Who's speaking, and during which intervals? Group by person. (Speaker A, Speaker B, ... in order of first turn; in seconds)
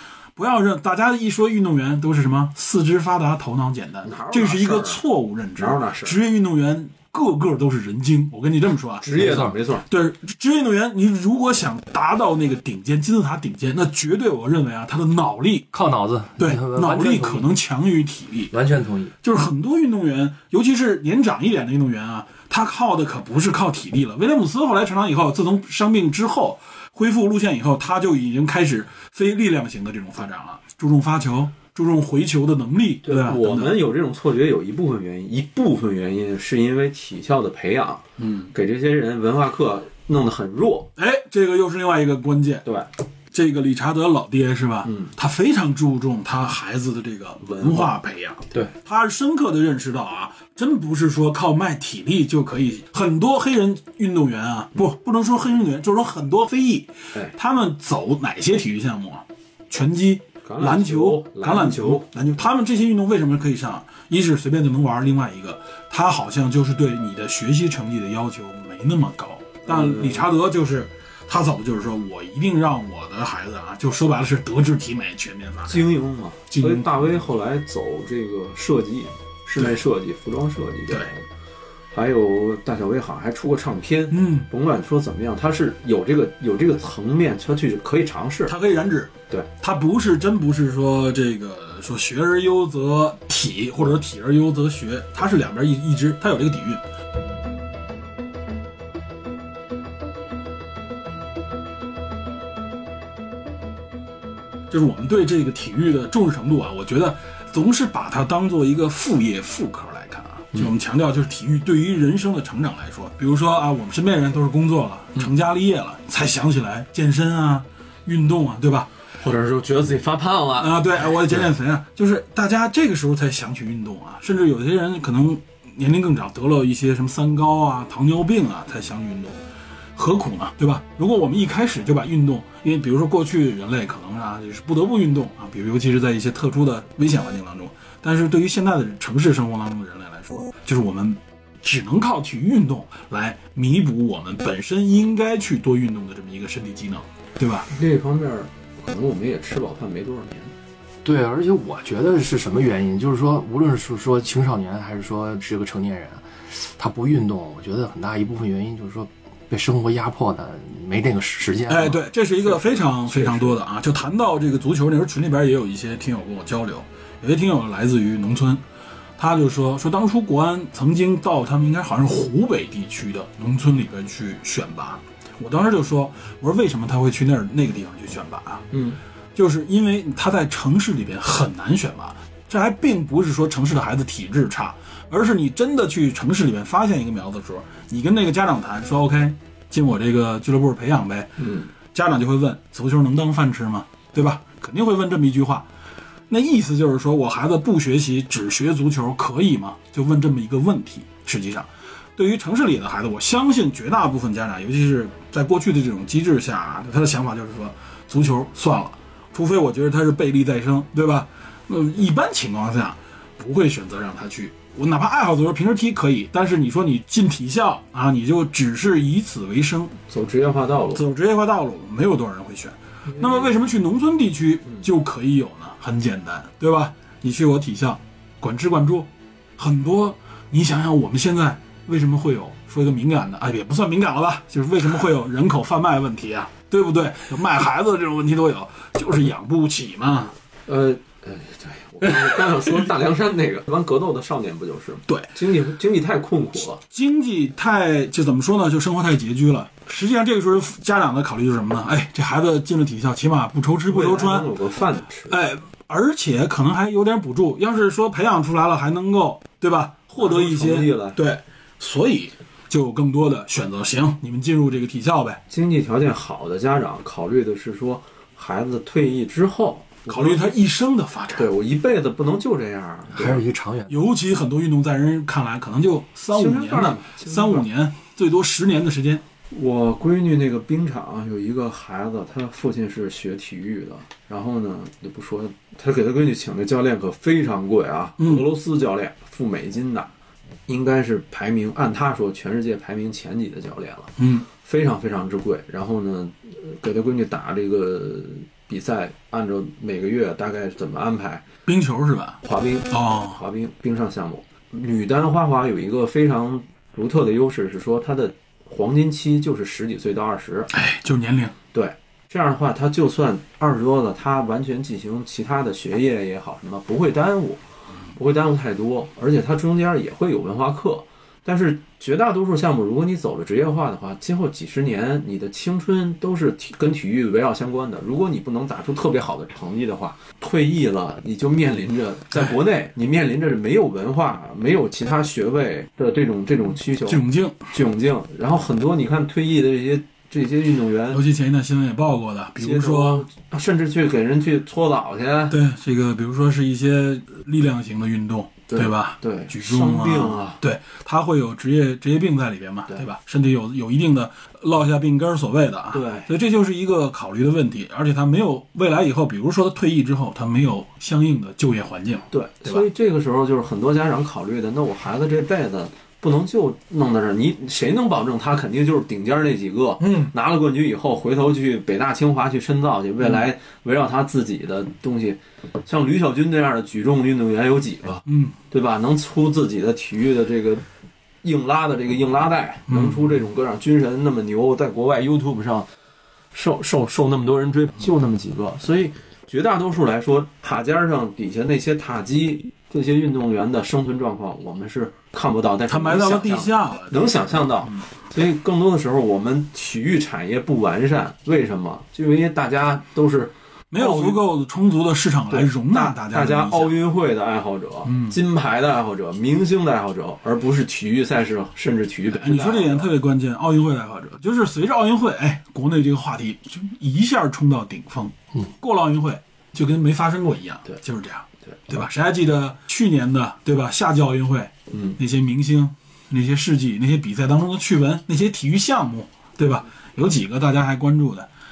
Speaker A: 0.4-15.7, 16.4-18.5, 19.2-33.8, 38.2-38.5, 41.0-42.6, 43.3-75.9, 76.5-76.9, 84.1-84.5, 88.5-96.8, 104.7-118.9, 120.6-129.3, 129.9-147.7, 161.7-168.6, 169.2-178.7, 179.3-195.7, 196.3-220.0, 220.9-240.3, 246.9-254.5, 255.3-265.4, 270.1-271.5, 273.9-279.2, 288.2-288.5, 294.2-294.5, 301.6-303.4, 310.7-311.5, 337.1-337.6, 341.1-343.2, 345.5-362.9, 370.0-370.3, 378.3-378.6, 382.9-383.3, 395.9-397.2, 403.9-407.0, 408.1-408.4, 412.3-431.5
Speaker B: 4.0-5.0, 5.5-6.2, 9.0-9.9, 33.0-40.9, 44.8-45.1, 47.4-47.9, 60.4-62.1, 69.7-70.3, 75.7-81.2, 81.9-88.5, 119.2-120.8, 147.7-150.5, 162.4-163.6, 178.7-179.0, 191.4-191.7, 220.1-221.0, 223.1-223.5, 240.7-246.8, 253.9-255.4, 260.2-261.2, 265.5-270.6, 271.4-273.4, 276.3-277.6, 279.5-290.1, 290.7-301.5, 302.4-310.7, 311.7-317.6, 318.1-341.2, 342.6-345.6, 348.7-350.6, 355.9-356.3, 362.3-380.8, 381.4-385.9, 386.5-404.4, 405.5-413.1, 424.9-425.2
Speaker C: 9.1-9.5, 15.7-17.5, 18.5-19.1, 151.0-162.0, 273.1-274.0